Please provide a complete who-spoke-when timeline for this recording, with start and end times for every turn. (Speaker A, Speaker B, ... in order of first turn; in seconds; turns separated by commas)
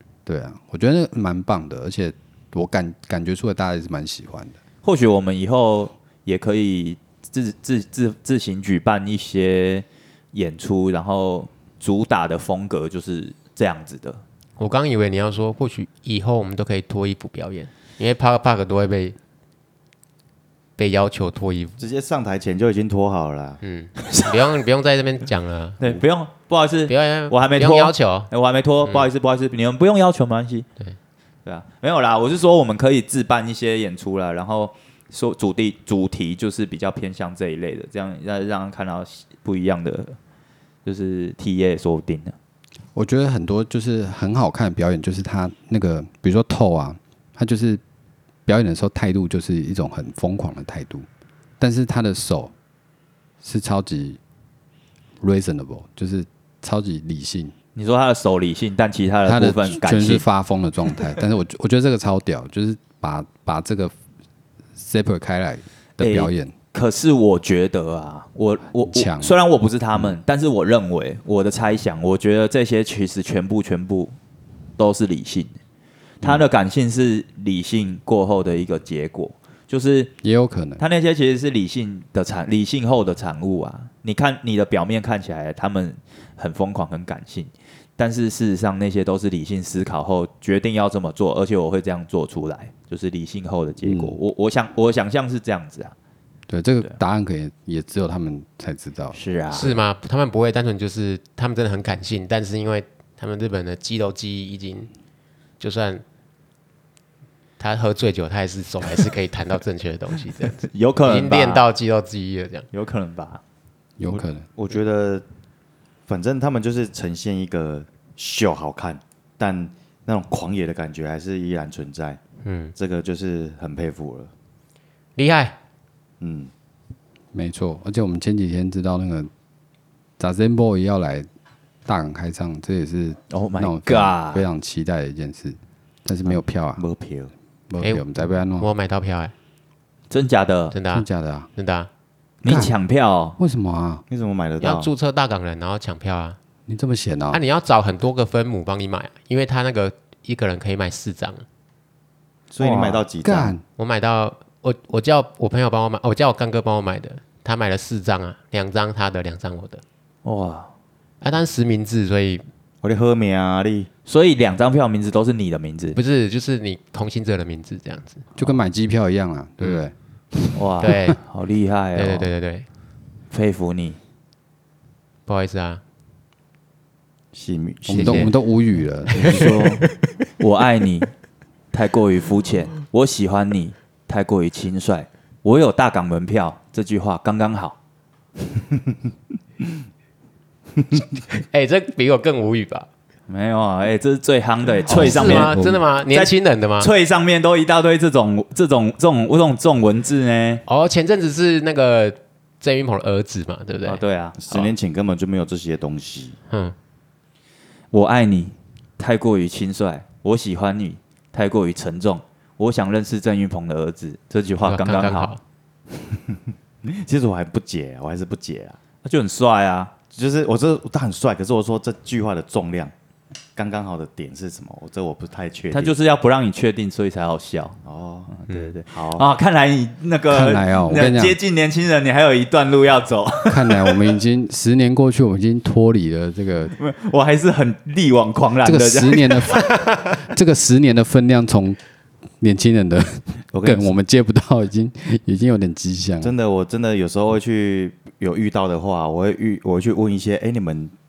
Speaker A: 0.2-4.6, Speaker B: 4.8-14.2, Speaker C: 14.6-19.1, Speaker C: 20.8-21.8, Speaker D: 21.8-23.6, Speaker C: 23.6-25.8, Speaker B: 25.8-30.6, Speaker C: 26.9-28.3, Speaker B: 31.4-40.2, Speaker B: 40.8-42.3, Speaker A: 42.9-47.8, Speaker A: 48.5-51.1, Speaker A: 51.6-52.5, Speaker A: 53.4-54.2, Speaker A: 55.2-57.5, Speaker B: 57.8-60.2, Speaker A: 59.2-63.9, Speaker A: 64.8-66.5, Speaker B: 66.0-74.2, Speaker A: 68.8-69.4, Speaker B: 74.8-75.5, Speaker B: 76.2-80.1, Speaker A: 80.2-80.8, Speaker B: 80.8-95.9, Speaker A: 93.8-94.2, Speaker A: 96.5-99.2, Speaker B: 99.1-99.8, Speaker C: 99.5-104.9, Speaker C: 105.6-106.0, Speaker C: 107.6-112.7, Speaker B: 110.6-111.7, Speaker B: 112.7-113.4, Speaker A: 114.0-114.5, Speaker D: 114.1-115.2, Speaker D: 116.1-122.2, Speaker C: 122.4-122.7, Speaker D: 122.8-124.3, Speaker C: 125.2-125.6, Speaker D: 126.2-126.5, Speaker A: 127.3-129.3, Speaker A: 130.2-131.3, Speaker A: 131.8-136.8, Speaker B: 133.3-134.4, Speaker D: 136.2-137.3, Speaker A: 137.7-138.7, Speaker C: 137.8-139.3, Speaker B: 140.1-140.8, Speaker C: 140.7-141.9, Speaker A: 140.9-141.5, Speaker B: 142.4-143.4, Speaker A: 142.4-142.7, Speaker A: 143.4-144.0, Speaker D: 144.1-144.9, Speaker C: 144.6-146.4, Speaker A: 146.7-147.4, Speaker C: 147.3-151.4, Speaker D: 152.5-153.5, Speaker A: 152.6-153.6, Speaker C: 153.8-159.8, Speaker B: 160.2-160.7, Speaker C: 161.2-162.4, Speaker D: 162.8-163.9, Speaker B: 164.1-166.0, Speaker C: 165.9-168.2, Speaker A: 168.3-169.9, Speaker B: 170.5-172.3, Speaker C: 170.8-171.2, Speaker C: 171.9-172.7, Speaker B: 173.3-174.0, Speaker C: 175.3-175.8, Speaker D: 177.3-178.3, Speaker A: 177.9-179.7, Speaker C: 177.9-178.3, Speaker C: 179.1-179.9, Speaker B: 179.2-179.9, Speaker B: 180.4-181.1, Speaker B: 181.7-187.8, Speaker C: 191.3-192.9, Speaker B: 193.3-195.6, Speaker A: 194.8-195.8, Speaker C: 194.9-196.9, Speaker B: 196.1-200.6, Speaker C: 200.7-204.0, Speaker B: 203.8-204.7, Speaker D: 204.4-206.4, Speaker C: 206.5-206.7, Speaker B: 207.9-215.3, Speaker C: 214.6-215.4, Speaker D: 215.9-218.8, Speaker B: 219.0-219.9, Speaker D: 220.1-222.9, Speaker D: 223.6-225.9, Speaker B: 225.7-227.8, Speaker D: 227.8-229.2, Speaker B: 228.3-234.1, Speaker A: 230.3-231.4, Speaker A: 233.5-236.7, Speaker B: 236.8-239.9, Speaker A: 238.6-241.8, Speaker A: 242.4-246.3, Speaker D: 243.5-243.9, Speaker D: 246.2-250.9